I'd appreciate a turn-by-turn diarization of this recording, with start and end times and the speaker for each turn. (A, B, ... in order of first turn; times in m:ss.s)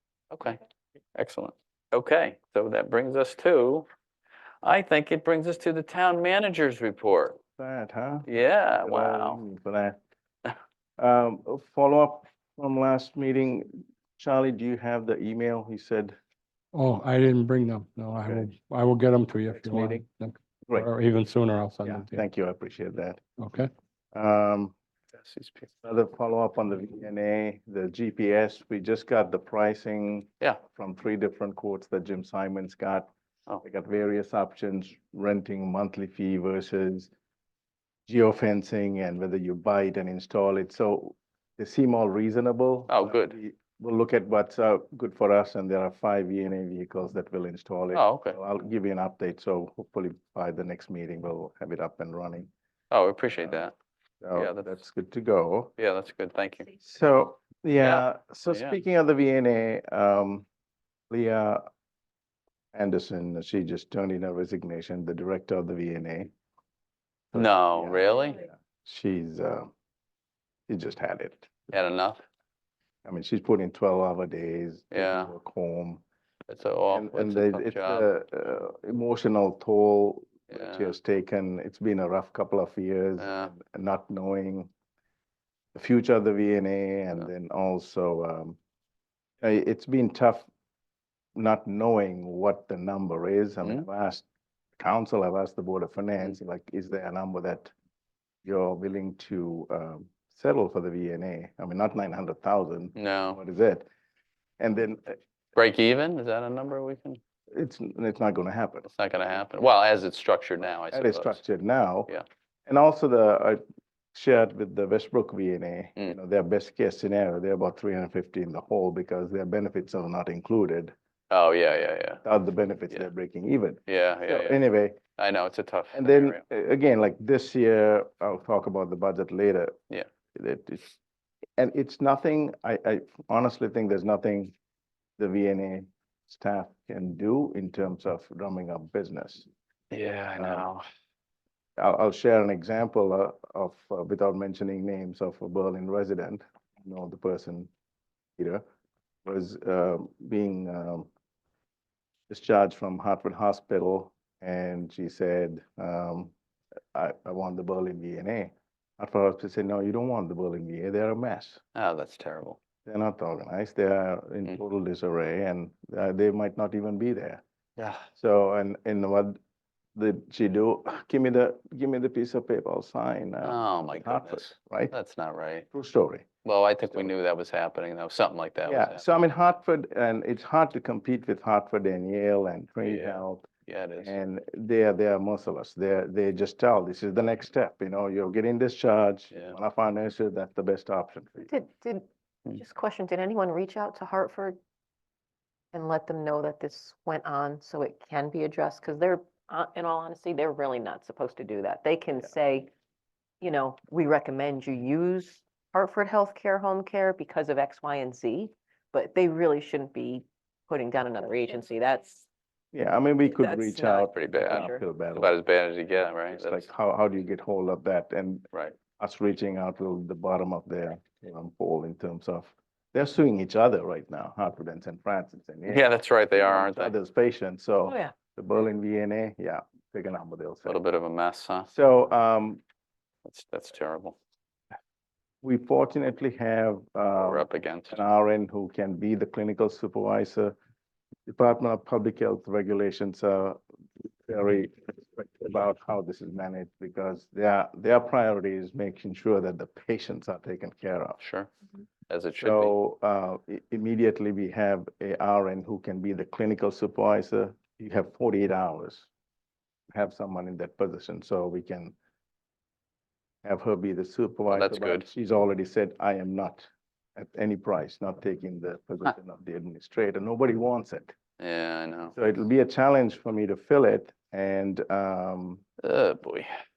0:00.3-0:00.6 A
0:01.1-0:03.9 A
0:04.6-0:07.4 A
0:07.6-0:08.3 B
0:08.2-0:09.4 A
0:08.8-0:10.0 B
0:11.0-0:16.2 B
0:16.7-0:22.2 C
0:19.6-0:20.0 B
0:21.8-0:23.2 B
0:23.4-0:23.7 C
0:24.1-0:24.7 B
0:25.2-0:25.7 A
0:25.8-0:33.1 B
0:33.6-0:37.1 B
0:38.1-0:52.5 B
0:42.9-0:43.4 A
0:47.9-0:48.4 A
0:52.9-0:53.7 A
0:53.3-0:53.6 B
0:54.2-0:55.7 B
0:54.3-0:54.8 A
0:55.8-0:56.7 A
0:56.8-1:00.4 B
0:57.8-0:58.8 A
1:01.1-1:01.6 B
1:02.7-1:06.3 B
1:07.3-1:09.7 B
1:07.3-1:08.4 A
1:10.7-1:11.7 B
1:11.7-1:12.2 A
1:13.0-1:16.0 B
1:14.9-1:15.3 A
1:16.5-1:18.1 A
1:16.9-1:24.7 B
1:20.5-1:21.0 A
1:23.2-1:23.5 A
1:25.7-1:28.6 B
1:29.4-1:30.5 B
1:31.4-1:34.2 B
1:34.8-1:37.7 B
1:38.4-1:43.9 B
1:43.0-1:43.4 A
1:44.6-1:45.2 B
1:45.5-1:47.2 A
1:47.5-1:48.9 B
1:48.8-1:51.4 A
1:50.8-1:52.1 B
1:52.7-1:53.6 B
1:54.1-2:00.9 B
2:01.3-2:02.2 A
2:02.2-2:05.0 B
2:03.8-2:04.6 A
2:05.2-2:06.4 A
2:05.9-2:09.7 B
2:10.3-2:11.0 B
2:11.6-2:14.5 B
2:15.2-2:19.5 B
2:19.9-2:20.8 A
2:20.4-2:20.6 B
2:21.8-2:27.7 B
2:28.4-2:28.6 B
2:29.2-2:31.1 B
2:32.3-2:36.3 B
2:36.9-2:41.6 B
2:41.7-2:42.6 A
2:42.8-2:47.4 B
2:47.8-2:48.1 A
2:48.1-2:49.4 B
2:49.9-2:54.9 B
2:53.4-2:55.7 A
2:55.7-2:56.3 B
2:56.4-2:59.0 A
2:56.8-2:57.1 B
2:58.6-3:03.5 B
3:02.8-3:04.2 A
3:04.0-3:11.5 B
3:11.4-3:14.6 D
3:15.7-3:22.7 D
3:23.4-3:32.2 D
3:32.7-3:35.3 B
3:33.3-3:34.8 D
3:33.9-3:36.7 A
3:36.3-3:50.8 B
3:45.7-3:46.9 A
3:47.9-3:48.1 D
3:50.6-3:51.7 A
3:51.7-3:52.6 B
3:53.2-3:54.2 A
3:55.4-4:00.6 B
3:57.1-3:58.0 A
4:01.3-4:03.6 B
4:04.3-4:11.2 B
4:11.2-4:11.5 A
4:12.1-4:12.8 A
4:12.4-4:19.1 B
4:19.9-4:21.9 B
4:23.4-4:31.1 B
4:24.5-4:25.1 A
4:31.4-4:32.2 A
4:32.1-4:35.6 B
4:35.8-4:36.5 A